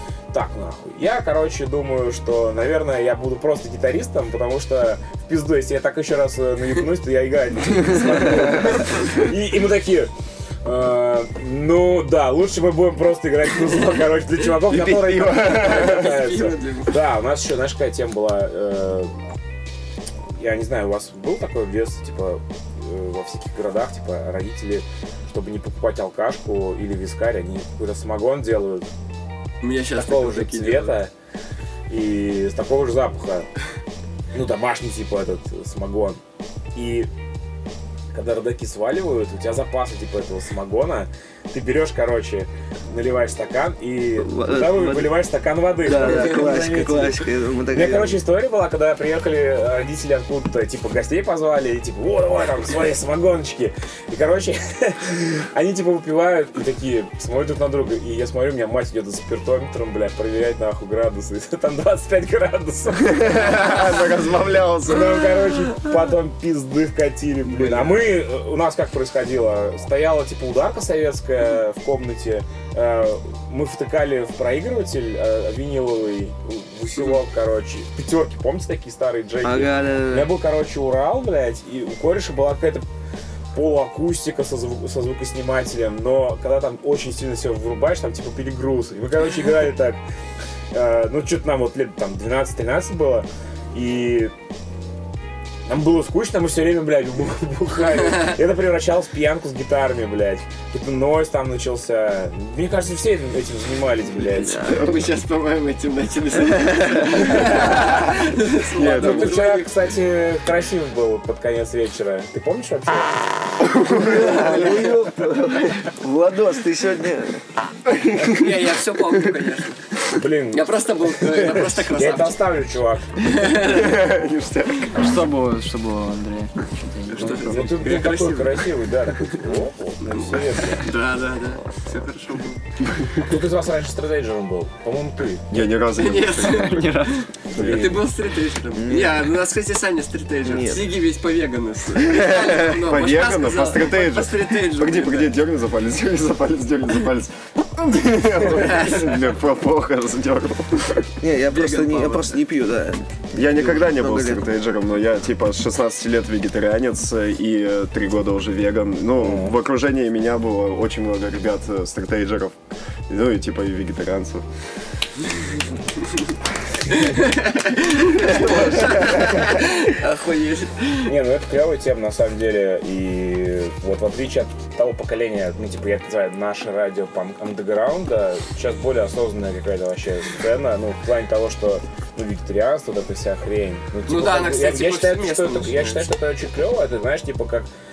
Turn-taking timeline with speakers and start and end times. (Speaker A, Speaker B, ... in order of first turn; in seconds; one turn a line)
Speaker A: 0.3-10.1
Speaker A: 10.6-19.1
Speaker B: 14.7-16.1
Speaker C: 15.5-17.0
Speaker A: 20.4-28.9
Speaker C: 29.6-30.9
Speaker A: 29.9-31.1
Speaker A: 31.9-33.5
Speaker A: 34.3-36.2
Speaker A: 36.7-37.1
Speaker A: 38.1-64.0
Speaker D: 44.2-45.1
Speaker D: 45.8-48.2
Speaker C: 46.0-46.5
Speaker B: 63.0-65.5
Speaker A: 64.8-82.8
Speaker D: 79.4-80.3
Speaker A: 83.5-90.0
Speaker A: 90.7-94.3
Speaker A: 95.7-104.6
Speaker C: 104.3-109.7
Speaker D: 104.3-104.8
Speaker B: 104.7-104.9
Speaker A: 107.1-107.8
Speaker B: 108.8-109.4
Speaker A: 108.8-113.3
Speaker B: 113.6-115.0
Speaker D: 113.8-118.5
Speaker C: 113.9-115.0
Speaker C: 118.2-120.0
Speaker A: 120.1-123.4
Speaker C: 120.5-122.4
Speaker C: 123.2-124.0
Speaker B: 123.5-125.2
Speaker E: 124.9-127.8
Speaker C: 127.1-128.7
Speaker A: 127.2-130.9
Speaker C: 130.0-132.6
Speaker A: 133.1-135.7
Speaker B: 135.5-136.8
Speaker C: 135.9-145.4
Speaker E: 136.7-137.3
Speaker A: 137.5-138.0
Speaker B: 137.5-138.0
Speaker D: 138.7-139.3
Speaker D: 140.4-140.8
Speaker D: 142.0-142.5
Speaker B: 142.6-151.1
Speaker C: 148.4-149.3
Speaker D: 151.2-154.4
Speaker C: 151.5-152.4
Speaker B: 153.3-164.4
Speaker A: 159.2-159.5
Speaker C: 166.9-171.1
Speaker B: 168.2-169.0
Speaker A: 169.1-169.4
Speaker A: 171.0-187.7
Speaker C: 184.1-186.1